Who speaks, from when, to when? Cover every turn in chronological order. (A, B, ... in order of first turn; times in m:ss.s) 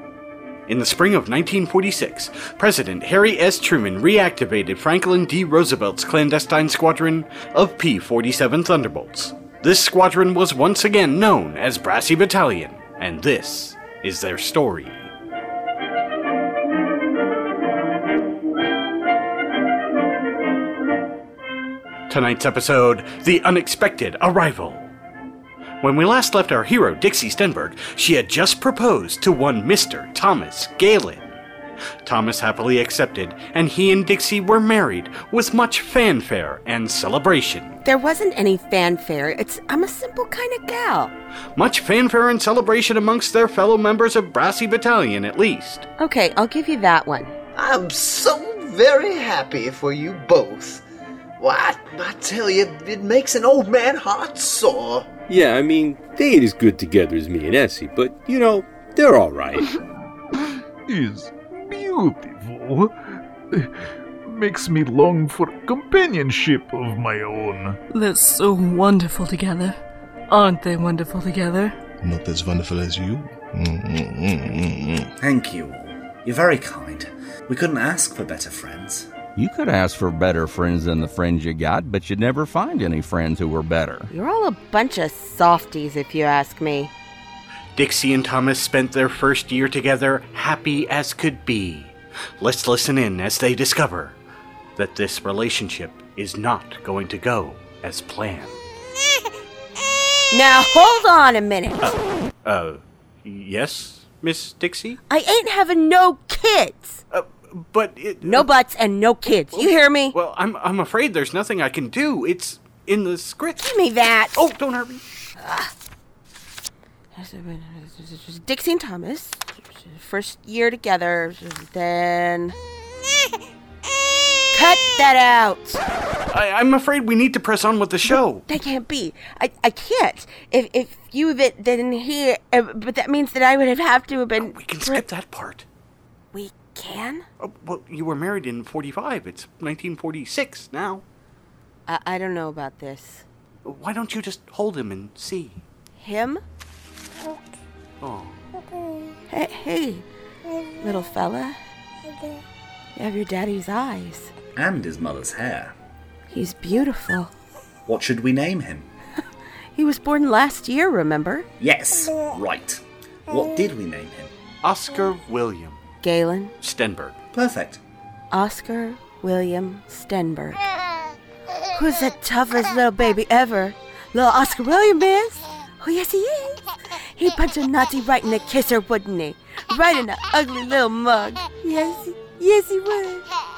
0:00.7-0:15.1 A
0:22.1-0:24.9 A
0:25.8-0:31.4 A
0:32.0-0:37.8 A
0:37.8-0:41.1 B
0:41.6-0:45.9 A
0:46.0-0:47.4 B
0:47.5-0:50.8 C
0:51.4-0:55.1 C
0:55.3-0:59.8 D
1:00.9-1:02.9 E
1:04.2-1:07.8 E
1:07.9-1:09.8 F
1:10.3-1:11.8 F
1:12.0-1:15.1 G
1:15.2-1:19.1 H
1:19.4-1:24.1 I
1:24.1-1:26.9 B
1:27.8-1:34.2 A
1:34.8-1:38.6 A
1:40.3-1:41.9 B
1:42.4-1:45.0 A
1:45.1-1:47.0 B
1:47.1-1:48.5 A
1:48.2-1:50.2 B
1:49.5-1:53.7 A
1:53.6-1:54.4 B
1:54.4-1:55.0 A
1:55.4-1:55.7 B
1:57.1-2:02.6 B
2:04.5-2:05.8 B
2:06.3-2:08.4 A
2:08.0-2:15.0 B
2:14.4-2:15.6 A
2:16.3-2:17.2 B
2:17.4-2:21.0 A
2:21.9-2:23.2 B
2:23.6-2:25.6 A
2:26.0-2:26.4 B
2:28.0-2:28.4 A
2:29.3-2:30.0 B
2:30.8-2:31.6 B
2:32.9-2:34.3 B
2:34.5-2:35.7 H
2:36.3-2:37.3 B
2:37.8-2:38.9 H
2:39.7-2:41.5 B
2:41.6-2:44.3 H
2:44.6-2:45.8 A
2:46.0-2:46.5 B
2:46.6-2:47.2 A
2:47.3-2:47.8 H
2:48.3-2:50.6 B
2:51.7-2:56.6 B
2:57.1-3:03.2 B